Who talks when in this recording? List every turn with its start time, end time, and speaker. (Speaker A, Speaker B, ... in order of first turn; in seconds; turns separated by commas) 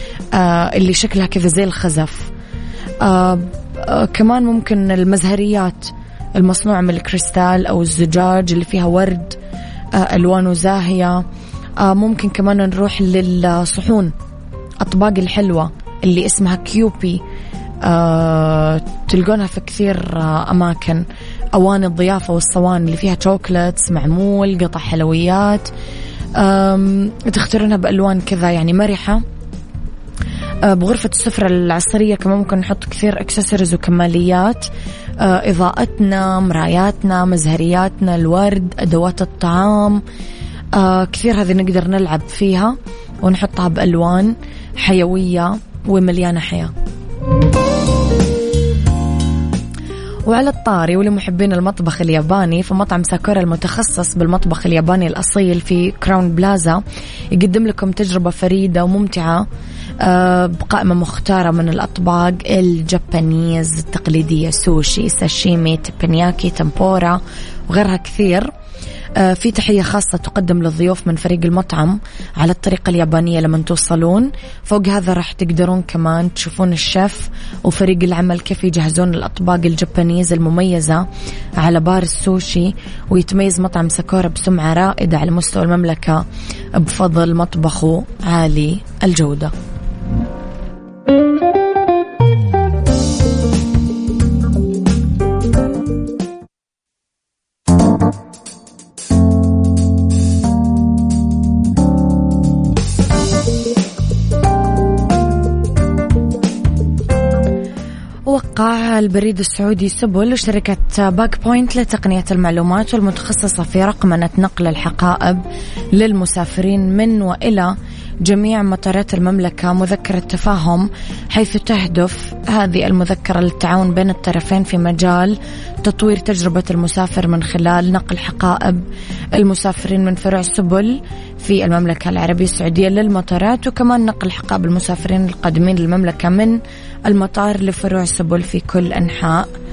Speaker A: 0.3-2.3, Speaker A: 3.0-9.4, Speaker A: 9.9-11.2, Speaker A: 11.8-14.1, Speaker A: 14.8-17.2, Speaker A: 17.8-25.7, Speaker A: 26.4-29.2, Speaker A: 30.6-40.0, Speaker A: 40.7-46.7, Speaker A: 50.2-56.8, Speaker A: 57.3-59.5, Speaker A: 60.0-68.5, Speaker A: 69.2-81.0, Speaker A: 81.6-86.2, Speaker A: 86.8-89.5, Speaker A: 108.2-128.8, Speaker A: 129.3-139.5